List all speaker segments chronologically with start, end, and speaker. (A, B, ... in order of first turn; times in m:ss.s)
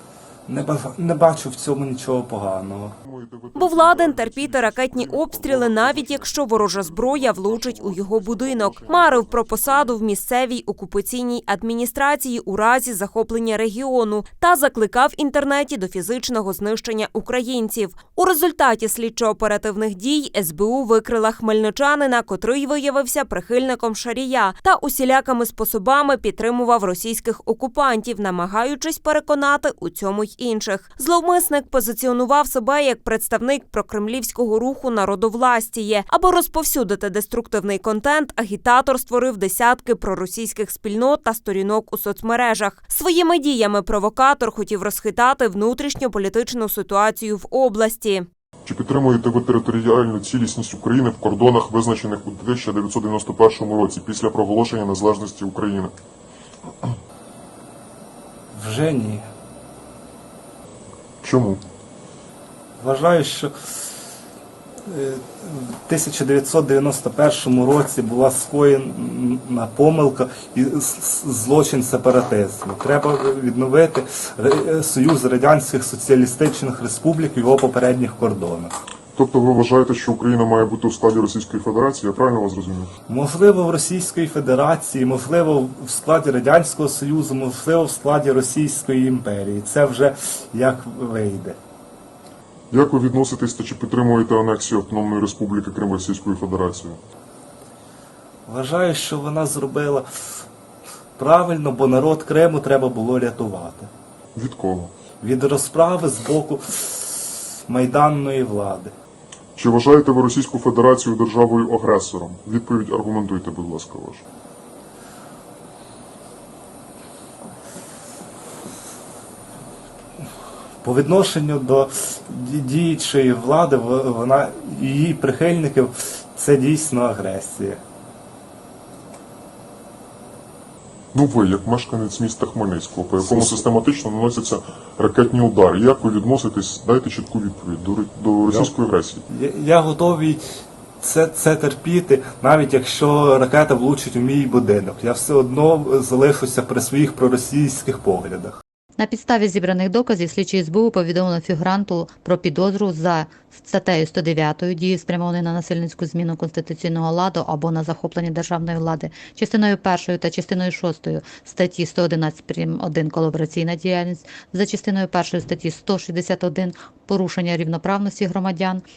0:00.5-0:02.9 A
0:03.0-0:10.0 B
0:03.5-0:48.3 C
0:48.6-0:55.9 B
0:58.5-0:59.2 A
1:01.2-1:01.6 B
1:02.8-1:03.9 A
1:04.9-1:18.7 A
1:19.1-1:22.9 B
1:23.1-1:31.6 A
1:32.7-1:37.0 B
1:38.5-1:40.4 A
1:41.2-1:43.9 A
1:44.3-1:44.9 B
1:45.2-1:48.9 A
1:49.6-1:54.2 B
2:00.8-2:07.8 A
2:11.1-2:19.3 B
2:13.2-2:13.6 A
2:19.3-2:28.5 A
2:29.0-2:48.8 D